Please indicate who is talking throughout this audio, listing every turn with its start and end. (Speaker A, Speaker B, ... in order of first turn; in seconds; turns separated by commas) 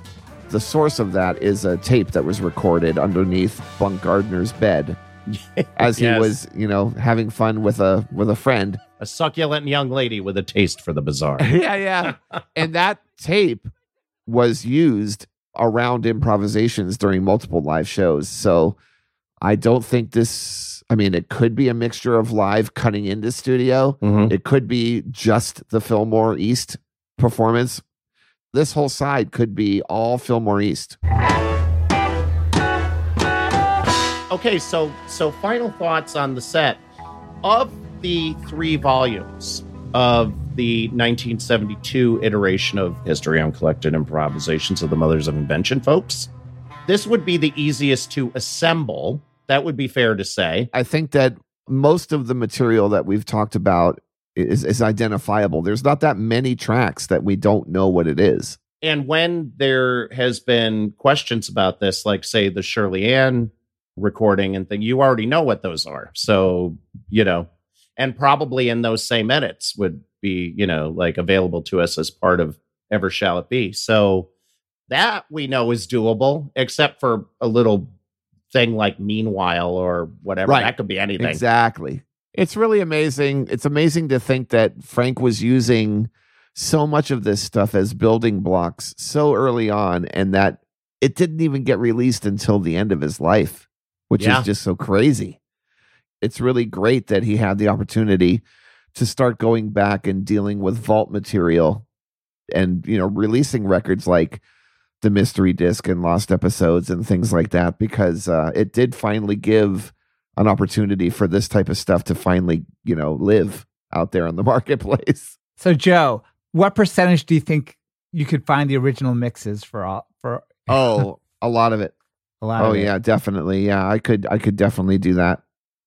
Speaker A: 0.5-5.0, Speaker B: 5.3-6.4, Speaker A: 5.8-8.8, Speaker B: 9.0-11.5, Speaker A: 11.4-13.7, Speaker A: 14.3-18.8, Speaker A: 19.4-27.8, Speaker B: 24.0-24.3, Speaker A: 28.5-31.0, Speaker B: 34.3-36.8, Speaker B: 37.4-46.3, Speaker B: 46.9-50.7, Speaker A: 50.7-58.6, Speaker B: 58.8-74.3, Speaker B: 74.9-77.9, Speaker B: 78.5-81.4, Speaker A: 80.5-95.4, Speaker B: 94.2-94.5, Speaker A: 96.2-98.4, Speaker A: 98.9-101.8, Speaker A: 102.5-104.4, Speaker A: 105.0-115.4, Speaker C: 115.6-120.8, Speaker A: 120.7-121.9, Speaker C: 122.4-122.9, Speaker A: 122.6-125.4